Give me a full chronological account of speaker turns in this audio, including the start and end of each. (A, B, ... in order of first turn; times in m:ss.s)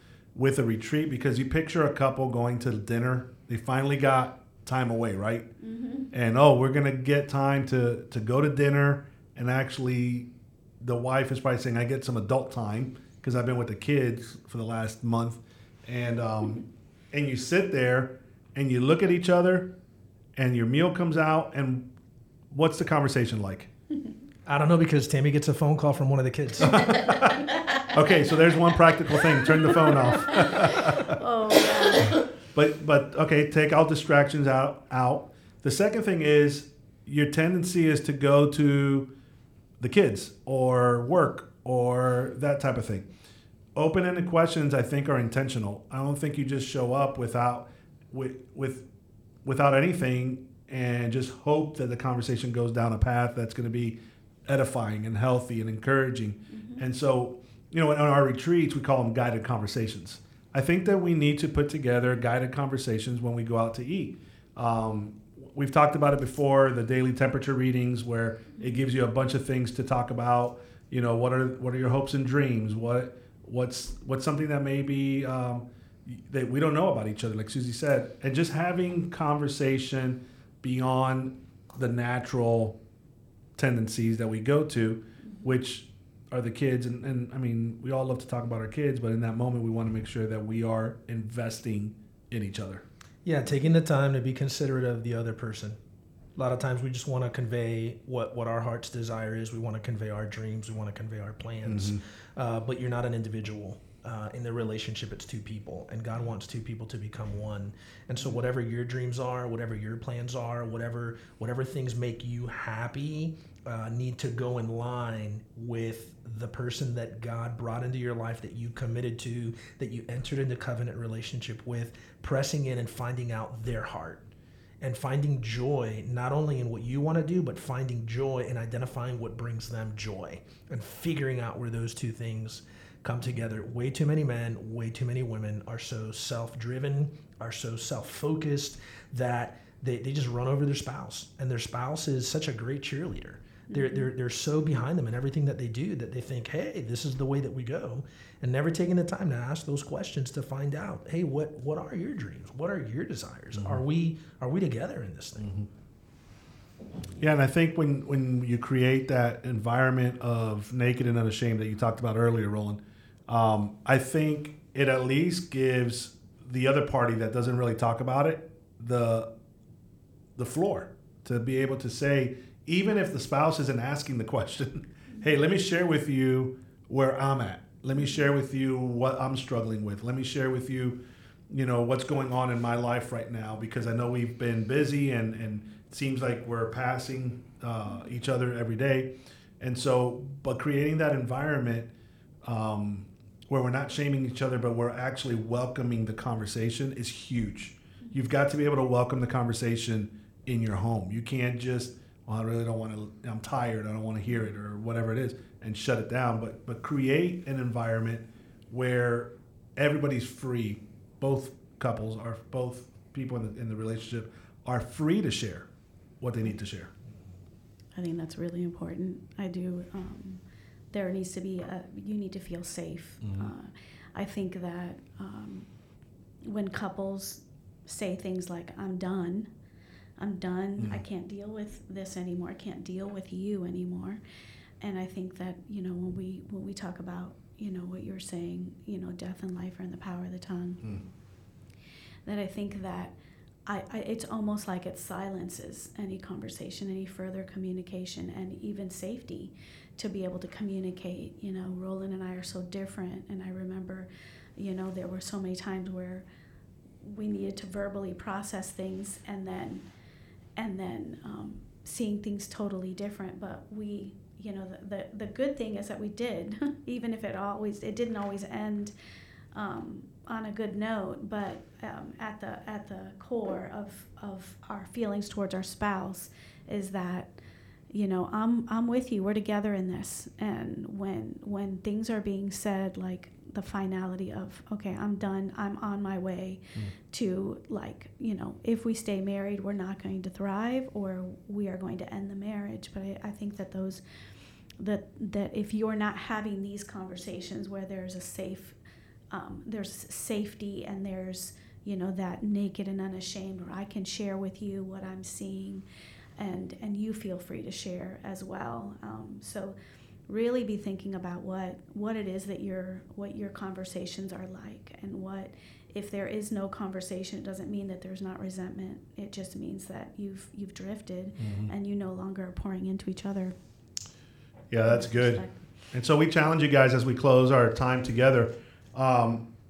0:00.4-0:05.5 A
0:05.6-0:06.1 B
0:06.1-0:19.8 A
0:20.4-0:21.9 A
0:22.5-0:23.7 A
0:24.5-0:27.0 C
0:26.7-0:31.2 A
0:29.7-0:32.2 B
0:32.5-0:39.1 A
0:39.8-0:43.1 A
0:43.8-0:48.9 A
0:49.4-1:22.8 A
0:56.5-0:56.8 B
1:23.6-1:32.8 A
1:33.2-1:35.8 C
1:36.4-2:04.2 C
1:41.6-1:42.0 A
2:04.8-2:35.5 C
2:23.7-2:24.0 B
2:33.5-2:33.8 A
2:35.4-2:35.7 A
2:37.2-2:49.3 A
2:50.4-3:11.9 A
3:12.4-3:35.7 A
3:36.2-3:36.9 A
3:38.0-3:45.7 B
3:46.4-3:49.5 B
3:50.2-3:54.2 B
3:54.8-4:01.0 B
4:02.3-4:03.1 B
4:03.7-4:16.2 B
4:17.0-4:19.9 B
4:20.6-4:28.9 B
4:29.5-4:37.4 B
4:37.9-4:54.0 B
4:54.8-4:58.8 B
4:59.3-5:05.8 B
5:06.4-5:09.8 B
5:10.3-5:23.6 B
5:21.4-5:21.7 A
5:24.7-5:29.5 A
5:24.9-5:25.6 B